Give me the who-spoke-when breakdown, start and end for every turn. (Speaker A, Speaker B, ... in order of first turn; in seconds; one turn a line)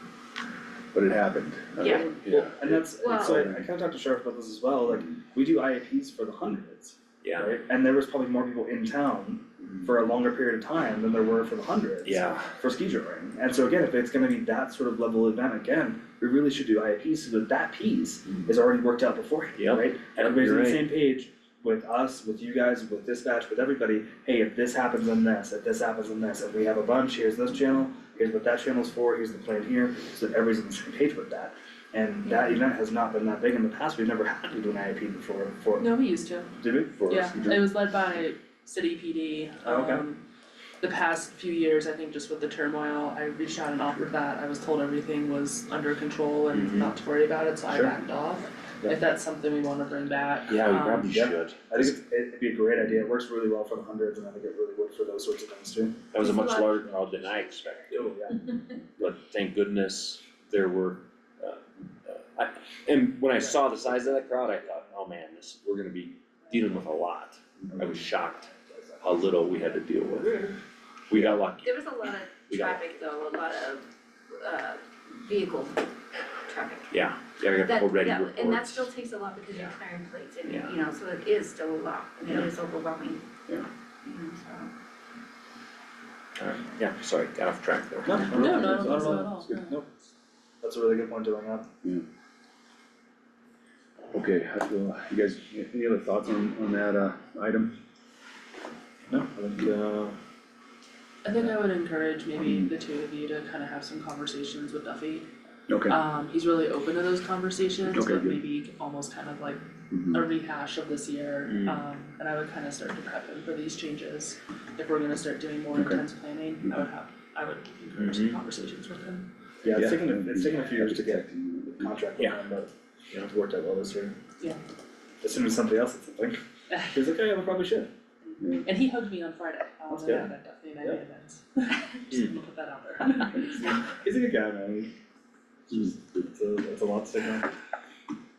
Speaker A: 0.9-3.6
Speaker B: 1.8-2.4
Speaker C: 2.5-35.9
Speaker B: 3.0-3.5
Speaker D: 7.2-7.5
Speaker D: 12.0-12.5
Speaker D: 19.6-20.9
Speaker E: 35.8-36.5
Speaker C: 36.6-37.2
Speaker E: 37.1-40.2
Speaker C: 39.6-40.0
Speaker E: 40.8-51.3
Speaker D: 46.5-46.9
Speaker D: 50.5-52.0
Speaker C: 51.1-56.1
Speaker D: 56.1-58.0
Speaker B: 56.2-57.9
Speaker C: 57.9-58.5
Speaker D: 59.0-70.5
Speaker D: 71.1-71.8
Speaker B: 71.6-75.9
Speaker D: 72.4-73.0
Speaker B: 76.5-83.3
Speaker D: 76.9-78.9
Speaker D: 80.4-80.7
Speaker B: 84.0-84.7
Speaker D: 86.4-88.6
Speaker C: 88.0-89.9
Speaker E: 88.2-89.8
Speaker A: 88.6-89.6
Speaker C: 90.6-91.7
Speaker A: 94.1-97.7
Speaker C: 99.1-100.2
Speaker E: 101.2-105.3
Speaker A: 102.4-102.7
Speaker A: 105.7-106.0
Speaker E: 105.8-119.3
Speaker A: 107.9-108.4
Speaker A: 109.9-110.2
Speaker D: 111.4-111.8
Speaker A: 115.7-116.0
Speaker D: 118.0-118.4
Speaker C: 119.6-121.2
Speaker A: 119.7-121.9
Speaker C: 121.8-124.2
Speaker C: 125.2-127.9
Speaker A: 128.4-128.7
Speaker E: 128.6-133.6
Speaker C: 129.9-130.3
Speaker C: 133.4-134.9
Speaker C: 135.7-137.5